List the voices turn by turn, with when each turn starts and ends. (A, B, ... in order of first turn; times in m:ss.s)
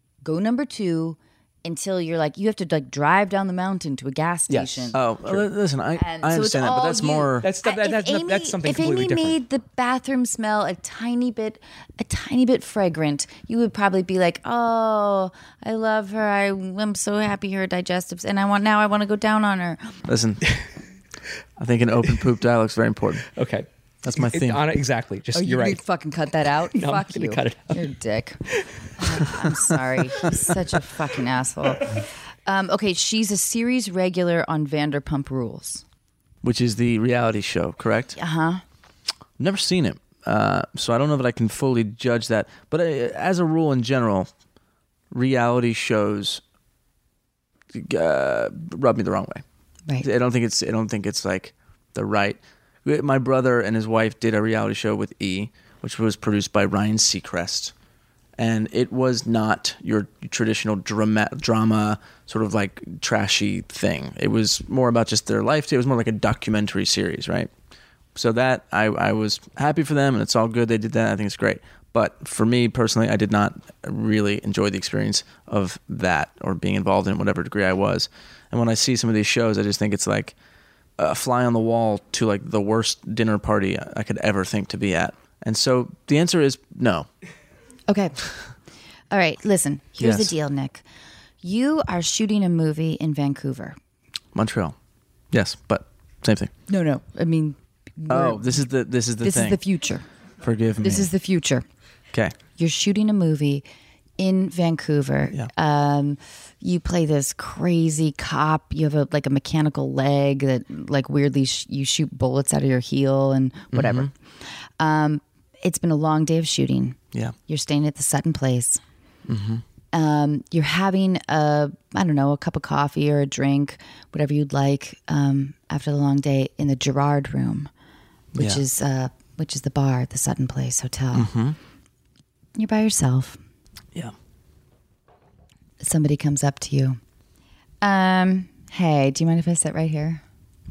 0:00.2-0:05.0 A
0:04.5-0:07.5 B
0:04.6-0:05.4 C
0:06.0-0:20.0 A
0:07.4-0:09.4 C
0:20.1-0:20.6 B
0:21.6-0:23.3 B
0:23.4-0:25.8 C
0:24.0-0:24.6 B
0:25.4-0:28.4 A
0:26.7-0:27.8 C
0:28.5-0:29.6 C
0:29.0-0:31.9 A
0:32.5-0:35.8 A
0:36.4-0:38.2 B
0:38.2-0:38.6 A
0:39.4-0:44.3 B
0:45.1-0:46.4 B
0:47.7-0:49.4 B
0:50.0-0:57.7 B
0:58.4-1:07.5 B
1:08.2-1:20.4 B
1:21.0-1:27.1 B
1:27.9-1:28.2 A
1:29.1-1:30.8 A
1:30.0-1:30.4 B
1:31.4-1:33.8 A
1:34.3-1:34.8 B
1:35.3-1:36.5 B
1:36.7-1:38.6 A
1:38.1-1:39.6 B
1:39.2-1:40.1 A
1:40.4-1:41.1 B
1:40.8-1:41.6 A
1:42.6-1:43.6 A
1:44.2-1:58.8 A
1:53.7-1:54.1 B
1:59.3-1:59.6 B
1:59.9-2:07.7 A
2:08.4-2:08.6 B
2:08.4-2:11.3 A
2:11.1-2:11.6 B
2:12.6-2:13.4 A
2:15.8-2:17.0 A
2:17.8-2:20.2 A